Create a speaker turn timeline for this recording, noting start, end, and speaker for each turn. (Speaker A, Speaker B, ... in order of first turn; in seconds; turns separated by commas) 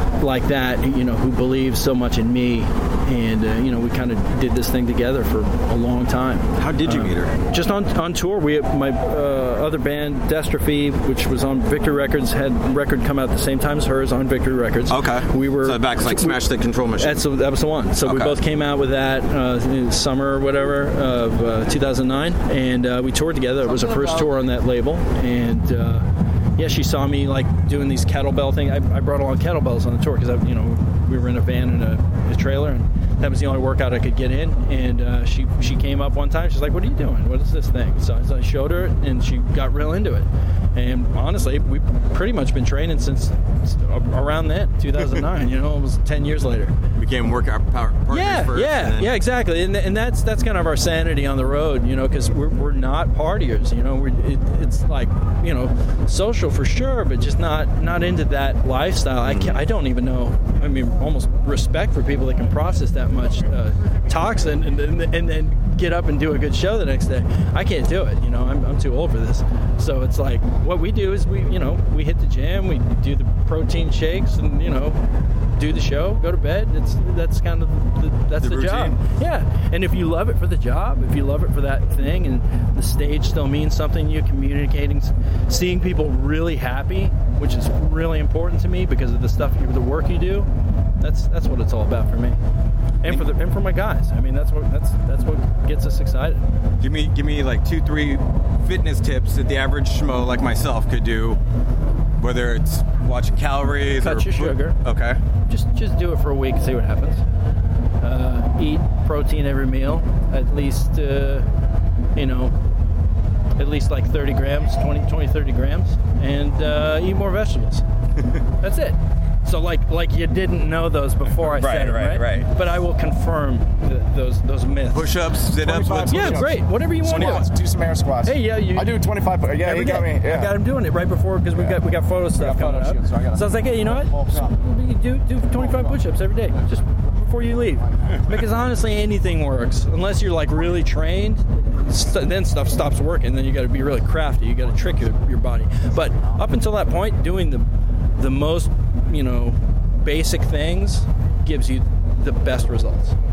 Speaker A: 0.2-16.4, Speaker B: 6.6-7.3, Speaker B: 14.9-17.2, Speaker A: 17.0-46.8, Speaker B: 18.0-18.4, Speaker B: 23.7-24.2, Speaker B: 47.0-49.1, Speaker A: 48.1-75.0, Speaker B: 59.2-59.6, Speaker A: 75.5-92.4, Speaker B: 78.4-79.0, Speaker A: 93.0-96.4, Speaker B: 96.8-101.4, Speaker B: 102.2-105.2, Speaker A: 104.0-104.8, Speaker A: 105.5-107.2, Speaker A: 108.0-111.5, Speaker A: 112.1-112.5, Speaker A: 113.6-117.8, Speaker A: 118.6-125.2, Speaker B: 121.5-122.5, Speaker B: 124.9-127.4, Speaker C: 125.5-130.6, Speaker A: 126.1-127.5, Speaker A: 128.2-129.1, Speaker A: 129.6-153.2, Speaker C: 132.3-134.6, Speaker C: 135.5-136.0